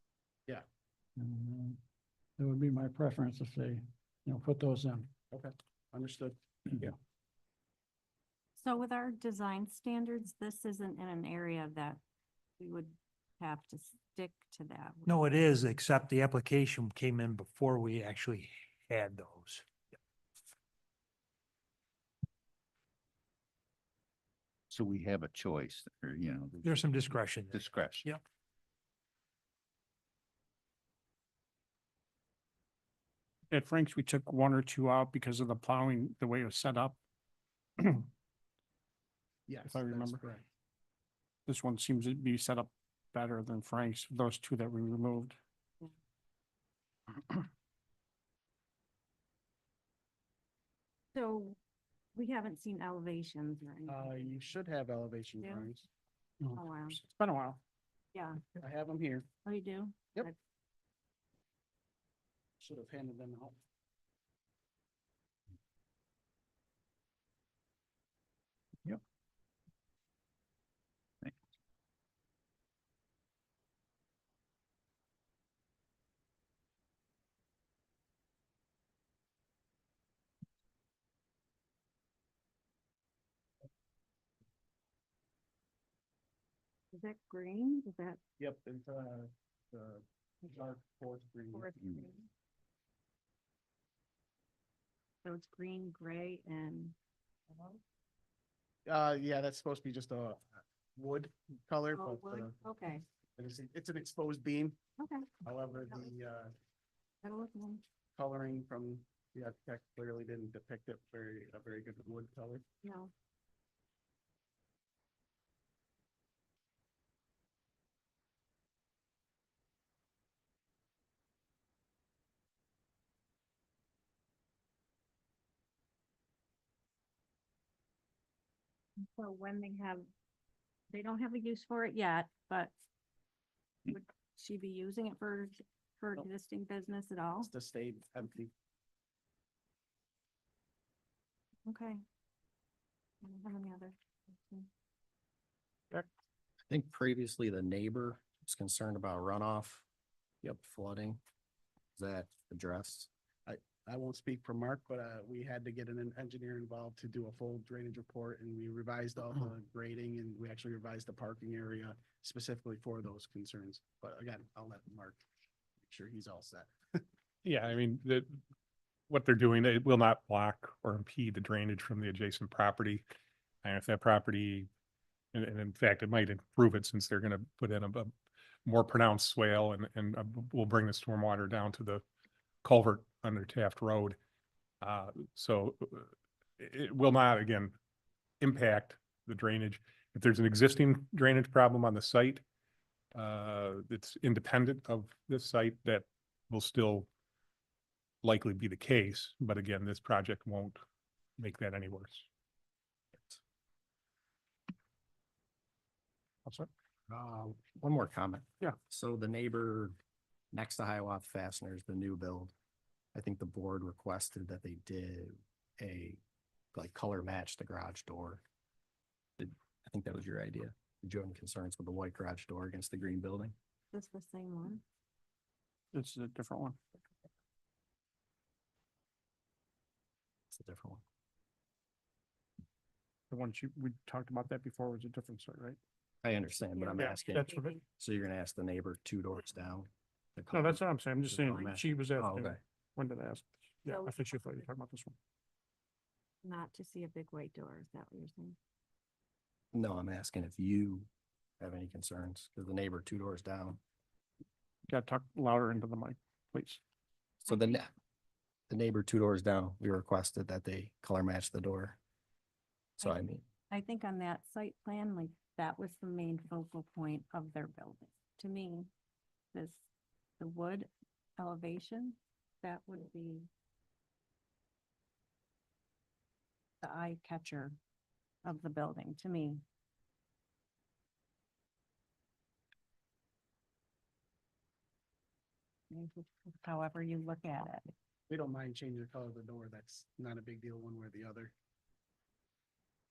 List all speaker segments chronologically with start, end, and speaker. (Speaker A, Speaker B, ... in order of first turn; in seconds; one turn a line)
Speaker A: 1.2-1.8
Speaker A: 2.4-5.1
Speaker B: 5.3-7.0
Speaker C: 8.6-12.0
Speaker C: 12.6-15.2
Speaker D: 15.1-19.7
Speaker E: 24.7-28.1
Speaker D: 26.6-28.2
Speaker F: 33.5-37.0
Speaker F: 37.8-38.1
Speaker B: 39.5-40.4
Speaker F: 39.7-40.2
Speaker F: 41.5-45.4
Speaker C: 51.1-51.6
Speaker C: 52.1-54.3
Speaker B: 53.9-55.9
Speaker C: 55.4-55.7
Speaker F: 56.4-57.6
Speaker C: 56.5-57.0
Speaker C: 58.1-58.4
Speaker B: 58.6-59.3
Speaker C: 59.5-60.4
Speaker B: 62.6-63.6
Speaker C: 86.9-88.2
Speaker B: 88.4-91.7
Speaker C: 91.5-92.3
Speaker C: 95.2-97.0
Speaker B: 98.9-102.6
Speaker C: 102.0-103.0
Speaker B: 103.4-104.8
Speaker C: 105.0-105.3
Speaker B: 105.4-106.5
Speaker C: 107.2-107.8
Speaker B: 108.2-112.6
Speaker C: 112.8-113.1
Speaker C: 129.2-130.1
Speaker C: 130.9-132.7
Speaker C: 133.9-137.5
Speaker B: 137.4-138.5
Speaker C: 141.7-142.0
Speaker C: 143.2-144.7
Speaker G: 146.7-149.8
Speaker G: 150.4-151.2
Speaker G: 152.0-153.1
Speaker B: 153.5-165.2
Speaker B: 165.8-167.0
Speaker H: 167.4-168.4
Speaker H: 169.1-173.0
Speaker H: 173.6-174.7
Speaker H: 175.3-178.1
Speaker H: 178.7-182.0
Speaker H: 182.6-184.2
Speaker H: 184.8-187.8
Speaker H: 188.4-192.4
Speaker H: 193.2-197.1
Speaker H: 198.2-200.8
Speaker H: 201.4-202.3
Speaker G: 207.1-210.0
Speaker G: 210.5-212.5
Speaker G: 213.2-216.2
Speaker G: 216.7-218.4
Speaker G: 219.4-223.6
Speaker C: 223.9-224.8
Speaker F: 225.9-226.8
Speaker G: 230.5-231.0
Speaker F: 233.3-235.8
Speaker G: 236.2-242.6
Speaker C: 236.8-237.8
Speaker F: 237.0-237.8
Speaker F: 240.5-245.2
Speaker C: 243.9-244.7
Speaker C: 246.4-248.6
Speaker G: 249.7-251.1
Speaker G: 251.6-253.8
Speaker F: 254.9-256.8
Speaker C: 257.4-257.8
Speaker G: 257.5-257.9
Speaker G: 258.7-262.0
Speaker G: 263.0-263.4
Speaker C: 263.0-268.9
Speaker C: 269.5-269.8
Speaker C: 270.4-273.5
Speaker C: 276.8-277.8
Speaker C: 278.5-279.6
Speaker C: 285.9-287.9
Speaker B: 288.3-291.5